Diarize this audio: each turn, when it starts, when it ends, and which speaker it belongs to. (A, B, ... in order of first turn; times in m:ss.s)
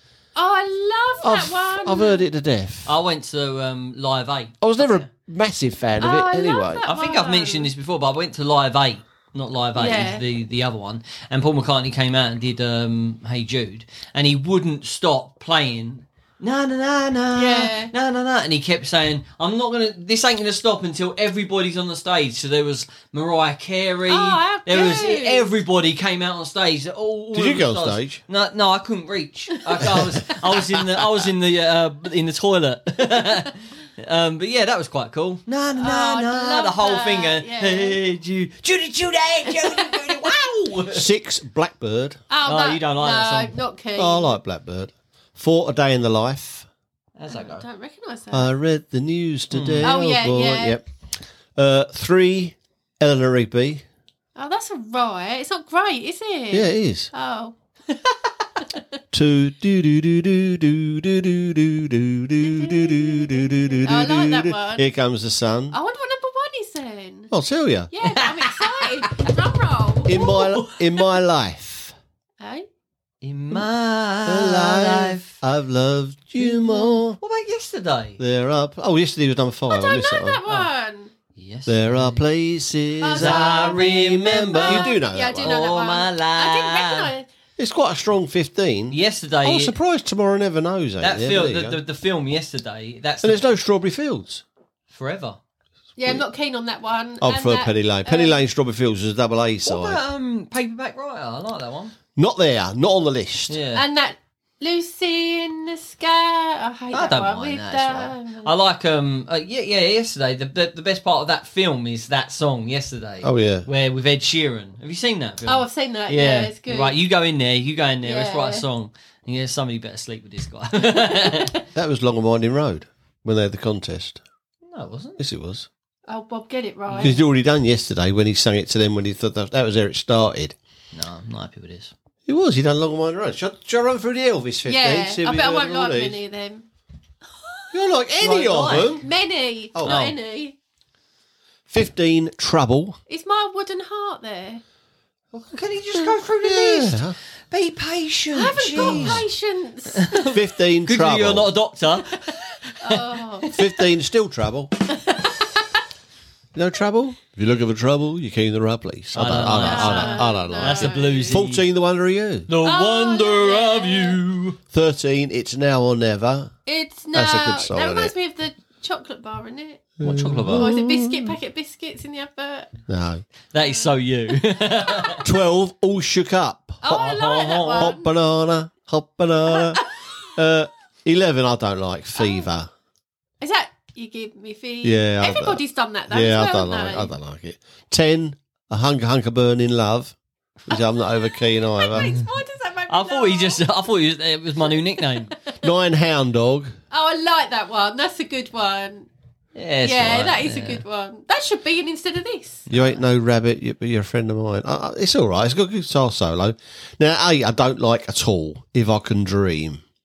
0:00.4-0:02.3 A
0:01.2-0:02.9 B
0:02.9-0:05.1 C
0:04.6-0:06.8 B
0:06.0-0:07.7 A
0:06.9-0:41.1 C
0:09.8-0:10.2 A
0:17.4-0:17.9 A
0:24.1-0:25.5 A
0:27.3-0:28.2 B
0:29.7-0:30.5 A
0:35.8-0:38.0 A
0:39.5-0:40.3 A
0:40.9-0:42.2 B
0:42.3-0:44.4 A
0:42.4-0:43.6 C
0:44.0-0:46.7 B
0:47.2-0:47.6 C
0:47.3-0:48.5 A
0:48.3-0:50.9 B
0:49.5-0:49.9 C
0:49.8-0:50.8 A
0:51.6-0:53.8 B
0:54.4-0:57.6 A
0:56.5-0:57.1 B
0:59.1-1:05.8 B
1:02.4-1:04.9 A
1:05.7-1:07.3 A
1:07.3-1:07.9 B
1:07.9-1:10.5 A
1:08.0-1:08.9 C
1:10.1-1:12.0 B
1:10.2-1:11.1 C
1:12.4-1:12.6 A
1:13.2-1:15.4 C
1:14.2-1:17.2 B
1:16.4-1:18.2 C
1:18.2-1:20.4 B
1:19.7-1:21.1 A
1:21.4-1:22.2 C
1:21.7-1:25.6 B
1:23.0-1:23.8 A
1:23.1-1:27.1 C
1:24.5-1:27.3 A
1:27.6-1:31.8 B
1:28.9-1:29.8 C
1:31.0-1:33.5 C
1:33.2-1:34.4 B
1:34.9-1:35.4 C
1:36.0-1:38.4 A
1:37.2-1:40.0 B
1:39.6-1:42.0 C
1:42.2-1:43.6 B
1:43.5-1:43.8 C
1:43.7-1:48.5 A
1:46.9-2:01.6 C
1:53.2-1:53.7 B
1:55.5-1:57.0 A
1:58.0-1:58.6 A
2:00.9-2:01.6 A
2:01.7-2:04.2 B
2:04.7-2:05.2 C
2:05.2-2:05.7 B
2:06.1-2:07.2 A
2:06.9-2:07.1 C
2:07.0-2:10.6 B
2:10.9-2:11.9 C
2:12.2-2:16.2 B
2:14.6-2:16.6 A
2:17.7-2:19.0 B
2:18.2-2:19.0 C
2:19.0-2:20.6 A
2:19.7-2:20.0 B
2:19.8-2:20.2 C
2:21.7-2:23.0 B
2:23.1-2:24.6 A
2:25.3-2:27.2 B
2:25.5-2:29.2 C
2:28.3-2:30.4 A
2:28.7-2:29.3 B
2:30.0-2:33.6 C
2:30.3-2:31.5 B
2:32.8-2:33.6 A
2:33.5-2:34.7 B
2:34.9-2:35.6 A
2:36.5-2:42.5 B
2:39.1-2:41.6 C
2:39.6-2:41.4 A
2:42.5-2:44.6 C
2:42.6-2:44.2 A
2:44.7-2:46.6 B
2:46.6-2:49.9 A
2:47.1-2:48.1 B
2:50.0-2:51.4 B
2:50.0-2:50.7 C
2:50.5-2:52.7 A
2:52.9-2:53.2 B
2:53.5-2:55.2 C
2:53.6-2:53.9 A
2:54.5-2:55.2 A
2:55.2-2:57.2 B
2:56.8-2:58.1 A
2:56.9-2:58.0 C
2:57.7-3:02.7 B
2:59.6-2:59.9 A
3:02.2-3:02.4 A
3:03.4-3:07.1 A
3:04.8-3:10.2 B
3:10.7-3:12.1 B
3:10.7-3:13.7 A
3:12.0-3:12.2 C
3:12.9-3:15.3 C
3:14.7-3:15.6 A
3:15.6-3:16.7 B
3:16.9-3:19.1 A
3:19.6-3:20.8 C
3:19.8-3:22.7 A
3:22.7-3:23.0 C
3:22.7-3:29.8 B